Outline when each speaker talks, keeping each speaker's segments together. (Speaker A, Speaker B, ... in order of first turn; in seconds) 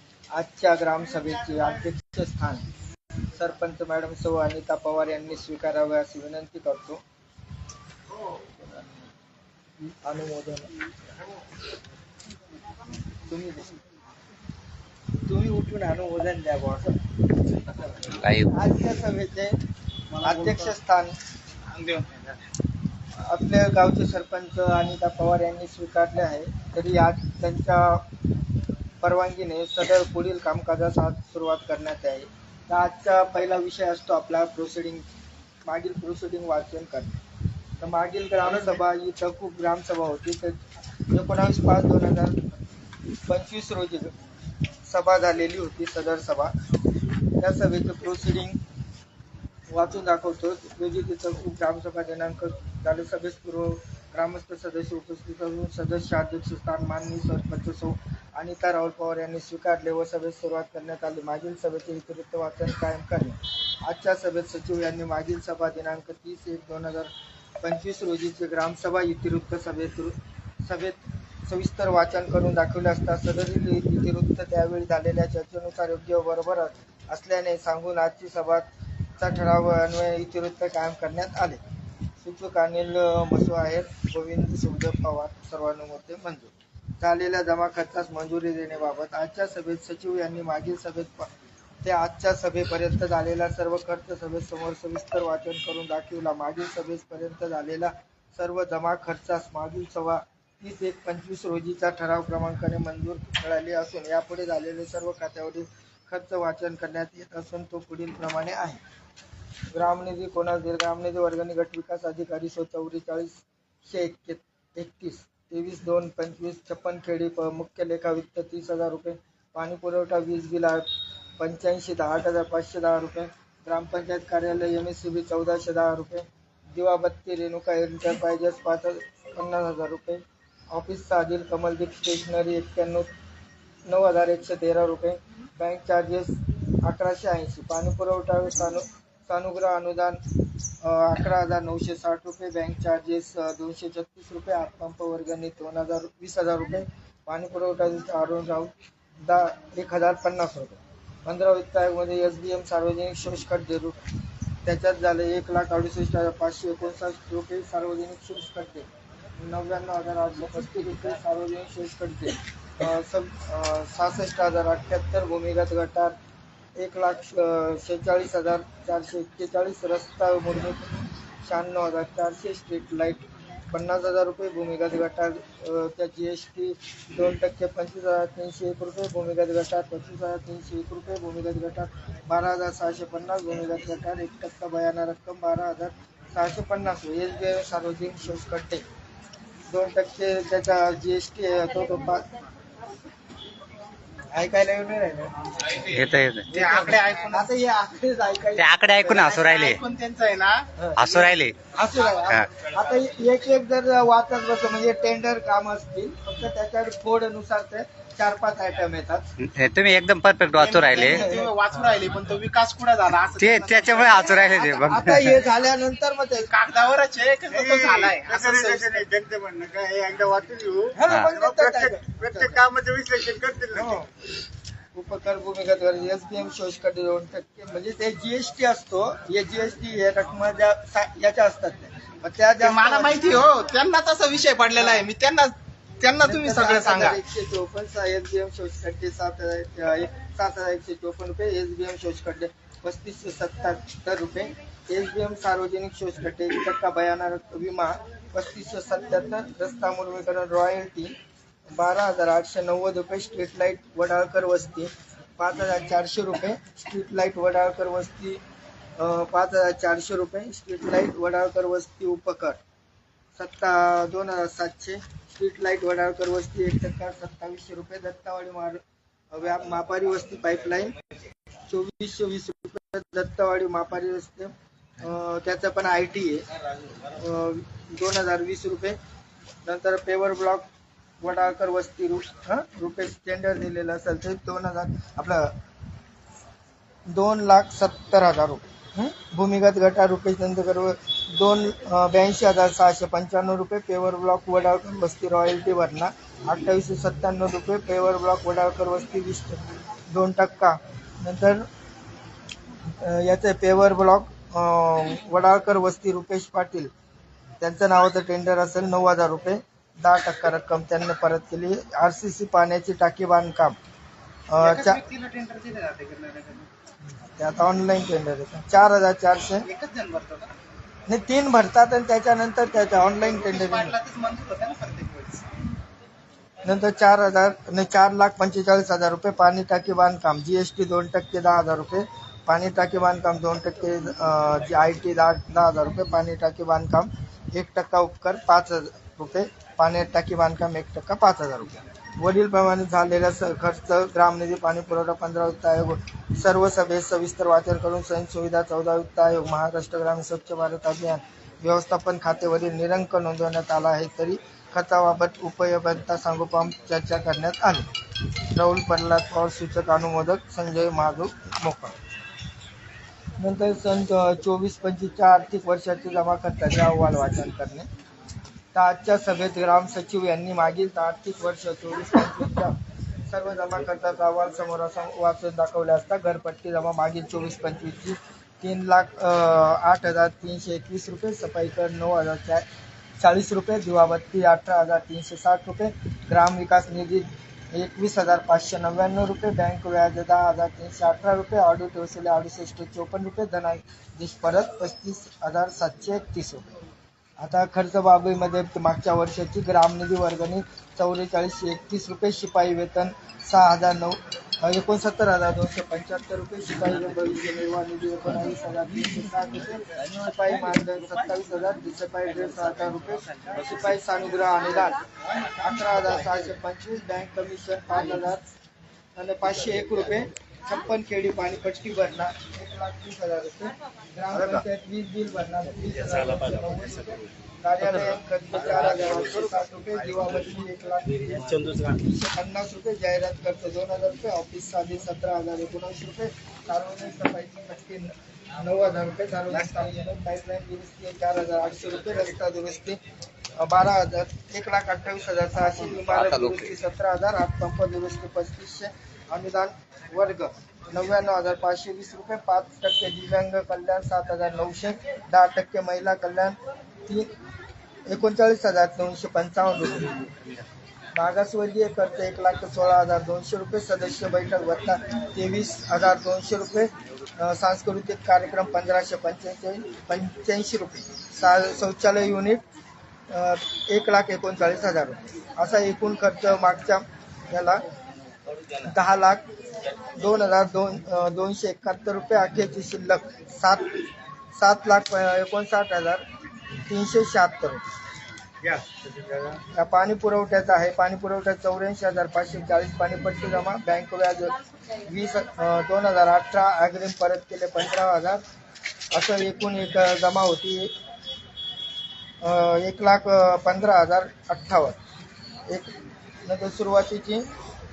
Speaker A: 0.3-2.7, 3.3-7.0, 10.0-10.7, 13.2-13.8, 15.2-17.0, 18.4-19.6, 20.2-21.2, 23.2-28.1, 29.0-35.0, 35.6-37.2, 37.8-40.6, 41.1-42.5, 43.3-44.1, 44.8-46.5, 47.4-48.6, 49.7-81.6, 82.2-91.3, 91.8-108.8, 109.7-120.8, 121.4-133.1, 133.8-140.2, 140.8-154.0, 154.6-166.2, 166.8-170.9, 171.4-188.8, 189.7-192.3, 194.3-195.8, 196.6-199.3, 200.8-209.3, 211.1-211.5, 214.8-216.5, 220.9-222.7, 223.7-224.1, 224.9-233.4, 236.2-251.2, 251.7-258.4, 259.0-262.6, 263.3-270.9, 271.7-276.5, 277.0-279.0, 279.6-280.7, 281.2-285.6, 287.1-301.6, 302.9-306.9, 307.6-313.8, 314.5-315.0, 317.4-319.6, 321.1-323.9, 326.6-357.9, 358.4-361.9, 363.4-367.9, 368.7-372.8, 373.3-382.6, 383.2-396.7, 397.4-418.4, 419.1-443.0, 443.5-457.3, 458.1-460.3, 461.1-472.6, 473.3-477.8, 478.8-479.4, 480.1-484.0, 484.5-486.2, 486.8-487.8, 488.6-498.4, 499.1-500.9, 502.4-505.0, 506.4-507.5
Speaker B: 18.0-18.5, 195.8-196.6, 198.6-199.8, 201.0-201.6, 209.4-211.2, 213.4-215.4, 446.1-446.8
Speaker C: 20.2-20.6, 21.7-22.2, 38.4-38.8, 196.5-197.5, 199.3-200.7, 210.6-214.9, 216.5-219.1, 232.6-237.2, 314.6-316.7, 319.6-320.5, 323.0-325.4
Speaker D: 217.5-224.0